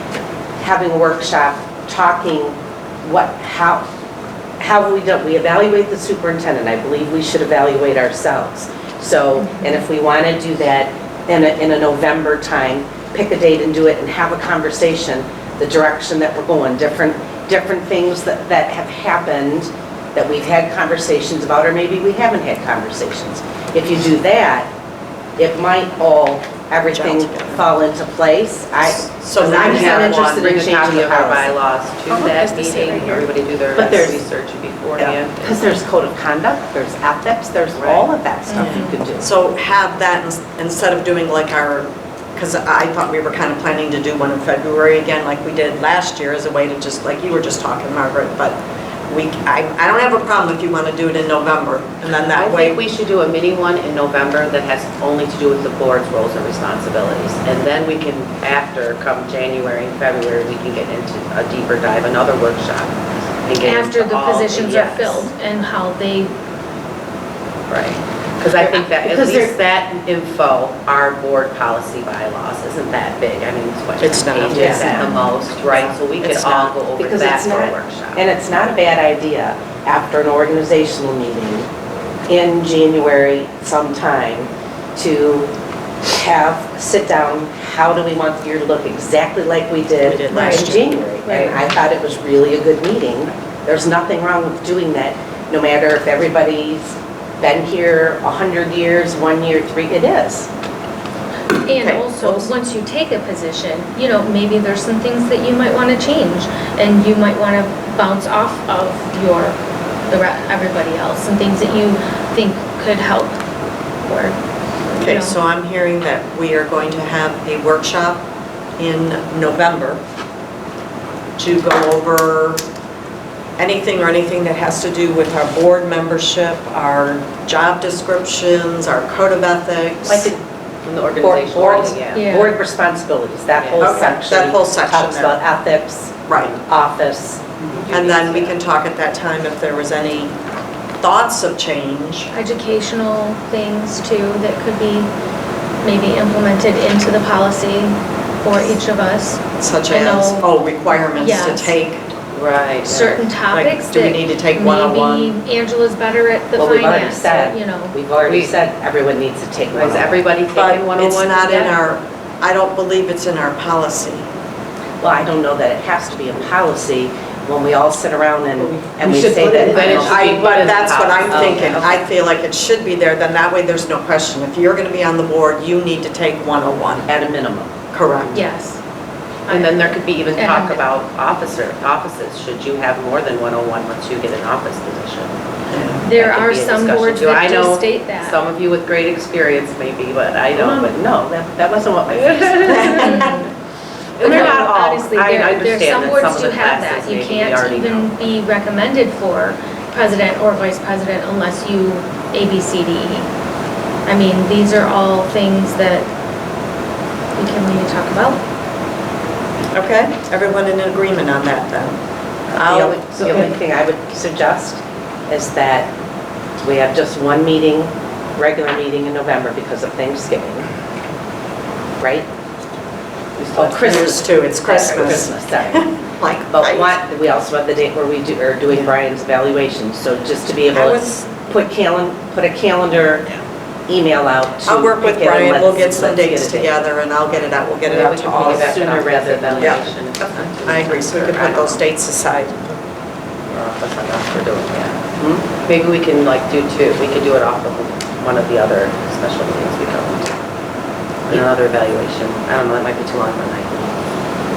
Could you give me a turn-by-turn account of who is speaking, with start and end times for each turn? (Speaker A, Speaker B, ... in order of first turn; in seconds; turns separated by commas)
Speaker A: 0.6-3.8, Speaker A: 4.6-24.7, Speaker A: 25.4-31.5, Speaker B: 26.8-27.6, Speaker B: 28.9-30.4, Speaker C: 29.4-35.4, Speaker D: 32.1-33.3, Speaker A: 33.7-34.2, Speaker A: 35.4-39.3, Speaker C: 37.7-38.1, Speaker D: 38.5-38.9, Speaker B: 38.5-52.8, Speaker C: 52.3-65.3, Speaker D: 63.6-66.3, Speaker C: 67.7-78.2, Speaker A: 68.7-69.5, Speaker B: 74.0-75.0, Speaker A: 74.5-75.1, Speaker D: 74.8-75.3, Speaker B: 75.7-76.7, Speaker A: 76.2-81.7, Speaker A: 82.3-85.5, Speaker A: 86.1-100.5, Speaker B: 90.0-90.9, Speaker D: 90.3-90.6, Speaker D: 91.2-91.5, Speaker D: 101.6-109.6, Speaker B: 101.7-102.5, Speaker D: 110.1-113.4, Speaker D: 114.0-114.4, Speaker D: 114.9-115.4, Speaker B: 115.0-118.2, Speaker B: 118.8-120.0, Speaker B: 121.4-122.6, Speaker B: 123.6-130.3, Speaker A: 130.1-130.4, Speaker C: 130.8-132.2, Speaker A: 131.2-137.4, Speaker D: 132.1-132.6, Speaker C: 133.6-134.1, Speaker B: 133.8-135.3, Speaker B: 136.3-136.5, Speaker C: 137.6-138.5, Speaker B: 137.9-140.4, Speaker B: 141.0-142.3, Speaker D: 142.3-145.1, Speaker D: 145.8-150.5, Speaker B: 149.6-152.1, Speaker D: 151.1-151.7, Speaker C: 152.3-153.2, Speaker D: 152.8-157.9, Speaker B: 153.5-155.3, Speaker A: 156.6-160.2, Speaker C: 158.2-158.6, Speaker C: 159.7-161.8, Speaker B: 160.5-164.3, Speaker A: 165.0-170.7, Speaker C: 169.2-171.8, Speaker B: 170.3-177.1, Speaker A: 171.2-172.0, Speaker A: 177.1-177.7, Speaker B: 177.9-178.4, Speaker D: 178.3-178.8, Speaker D: 179.4-180.8, Speaker C: 179.5-185.3, Speaker B: 185.7-186.0, Speaker D: 186.0-188.4, Speaker C: 186.1-191.0, Speaker A: 190.5-193.4, Speaker C: 192.1-193.0, Speaker D: 192.7-193.5, Speaker C: 194.2-194.7, Speaker A: 194.2-195.6, Speaker D: 194.2-203.3, Speaker C: 195.2-198.3, Speaker D: 204.1-206.1, Speaker D: 207.3-208.4, Speaker B: 209.7-212.0, Speaker A: 212.5-215.9, Speaker B: 212.6-213.0, Speaker C: 213.2-213.4, Speaker A: 216.6-220.7, Speaker A: 222.0-222.3, Speaker A: 223.5-225.9, Speaker B: 223.5-226.9, Speaker A: 226.5-233.3, Speaker B: 230.7-231.1, Speaker A: 233.9-236.9, Speaker B: 234.7-238.9, Speaker C: 237.9-241.8, Speaker A: 237.9-239.8, Speaker B: 239.6-242.7, Speaker C: 243.5-245.0, Speaker A: 245.2-245.4, Speaker C: 245.6-250.3, Speaker C: 251.3-253.9